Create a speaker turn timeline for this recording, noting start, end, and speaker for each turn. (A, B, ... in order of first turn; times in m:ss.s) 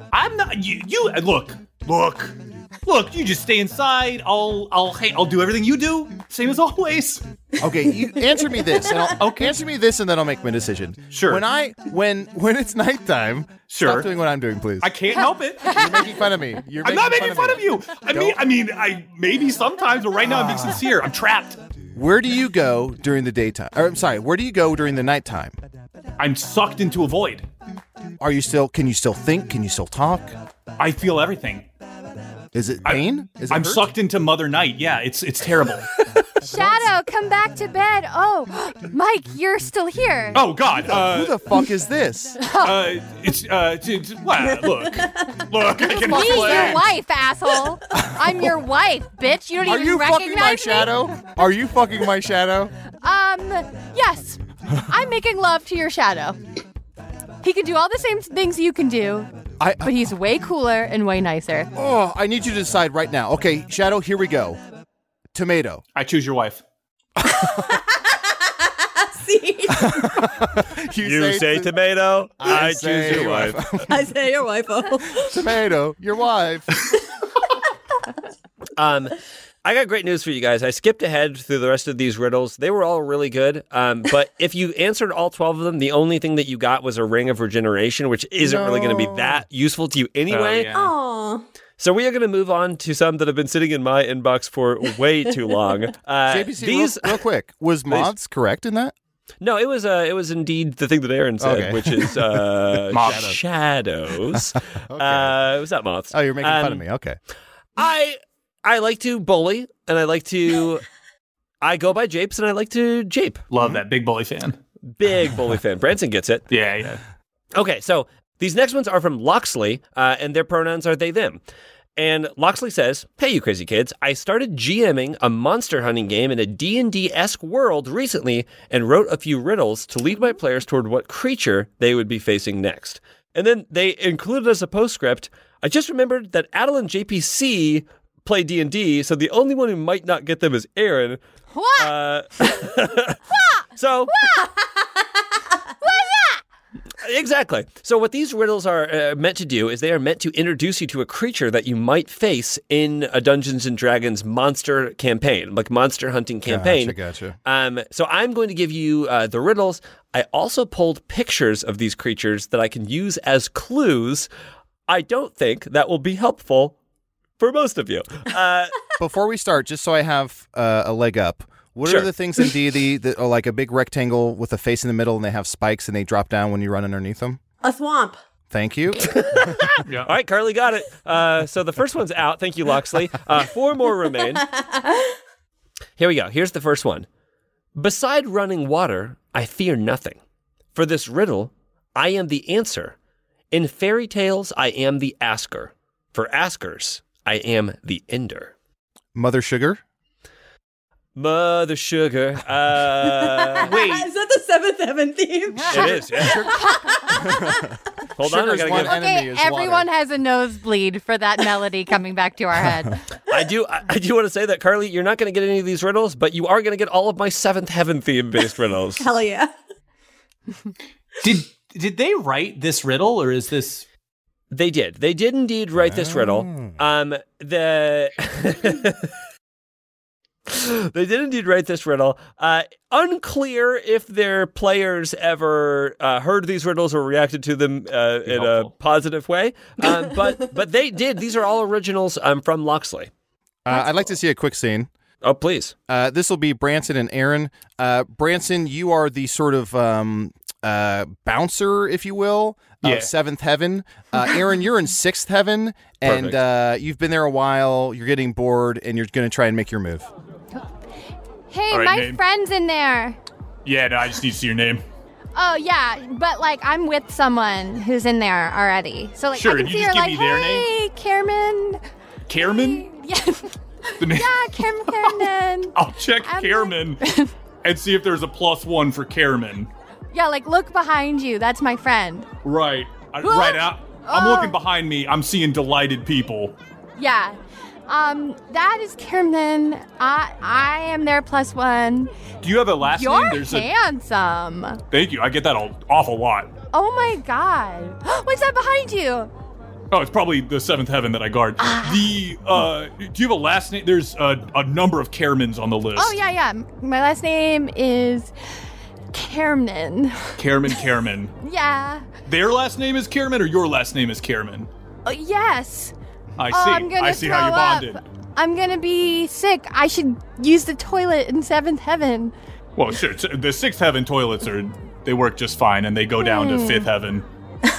0:00.1-0:07.2 A
0:07.6-0:14.9 B
0:09.2-0:09.5 A
0:11.1-0:11.4 A
0:13.7-0:14.1 A
0:14.8-0:15.8 A
0:15.6-0:16.0 C
0:15.7-0:18.4 B
0:16.8-0:21.6 A
0:20.3-0:20.7 B
0:21.9-0:25.6 B
0:26.2-0:27.4 A
0:28.2-0:30.4 B
0:30.8-0:31.7 A
0:32.5-0:33.9 B
0:32.8-0:35.9 A
0:36.4-0:40.5 C
0:36.4-0:36.9 B
0:40.3-0:41.4 A
0:40.9-0:42.4 B
0:42.4-0:42.8 C
0:42.5-0:46.9 A
0:44.4-0:45.4 D
0:45.9-0:50.9 C
0:46.2-0:46.8 B
0:49.6-0:52.7 B
0:53.0-0:56.4 C
0:57.4-0:59.3 C
0:59.6-1:00.1 B
0:59.8-1:01.7 C
1:01.7-1:04.6 B
1:05.3-1:05.8 B
1:05.9-1:06.6 A
1:07.2-1:07.7 B
1:07.2-1:10.3 D
1:09.7-1:11.7 B
1:11.0-1:13.6 E
1:12.4-1:14.1 B
1:13.9-1:15.4 D
1:15.2-1:16.8 B
1:18.8-1:30.7 E
1:28.4-1:29.4 B
1:30.3-1:30.9 A
1:30.7-1:31.4 D
1:31.8-1:37.2 E
1:36.2-1:38.9 B
1:39.4-1:46.8 E
1:41.4-1:43.4 B
1:42.9-1:43.4 A
1:44.9-1:45.4 B
1:46.1-1:47.2 B
1:47.8-1:50.8 E
1:51.6-1:53.4 E
1:53.5-1:54.6 A
1:54.9-1:56.5 E
1:56.5-1:57.0 A
1:57.5-2:01.4 E
2:02.0-2:21.2 E
2:21.5-2:21.9 C
2:21.8-2:23.2 E
2:23.7-2:24.1 E
2:24.1-2:24.4 C
2:25.8-2:26.4 C
2:27.0-2:44.3 E
2:36.4-2:37.4 B
2:44.9-2:46.7 E
2:47.4-2:48.8 E
2:49.0-2:57.4 B
2:57.6-2:58.2 D
2:58.5-2:59.7 B
2:59.1-3:04.4 E
2:59.8-3:00.1 A
3:04.3-3:05.1 D
3:06.0-3:07.1 E
3:07.8-3:10.2 E
3:10.7-3:13.0 E
3:13.5-3:18.5 E
3:19.1-3:19.8 B
3:21.2-3:23.7 E
3:23.3-3:27.6 D
3:23.6-3:24.1 A
3:25.5-3:27.2 C
3:25.7-3:26.5 E
3:26.2-3:27.6 B
3:28.2-3:29.0 E
3:28.2-3:29.9 B
3:28.6-3:33.0 C
3:33.3-3:39.1 E
3:39.0-3:39.5 D
3:41.2-3:43.8 A
3:44.5-3:49.1 E
3:45.8-3:46.8 B
3:50.5-4:03.1 E
3:58.3-3:58.7 A
4:03.6-4:04.9 B
4:05.2-4:05.7 E
4:05.9-4:20.1 B
4:12.8-4:13.1 A
4:16.0-4:16.4 E
4:21.5-4:23.2 C
4:21.7-4:22.2 A
4:23.6-4:24.8 A
4:25.3-4:31.8 C
4:29.3-4:30.7 A
4:32.3-4:32.8 A
4:32.3-4:37.3 C
4:34.0-4:37.0 A
4:37.6-4:39.7 A
4:40.1-4:42.3 C
4:42.4-4:46.6 A
4:43.2-4:44.6 C
4:47.0-4:52.1 C
4:52.4-4:53.7 A
4:52.8-4:54.8 C
4:54.9-4:56.5 A
4:56.7-4:59.3 C
4:59.9-5:06.2 A
5:01.6-5:02.2 C
5:06.0-5:08.3 C
5:09.1-5:10.4 C
5:10.4-5:11.3 A
5:11.4-5:12.1 C
5:12.2-5:14.7 A
5:15.0-5:15.9 C
5:16.4-5:18.0 A
5:16.5-5:22.3 C
5:22.8-5:27.2 A
5:26.2-5:26.9 C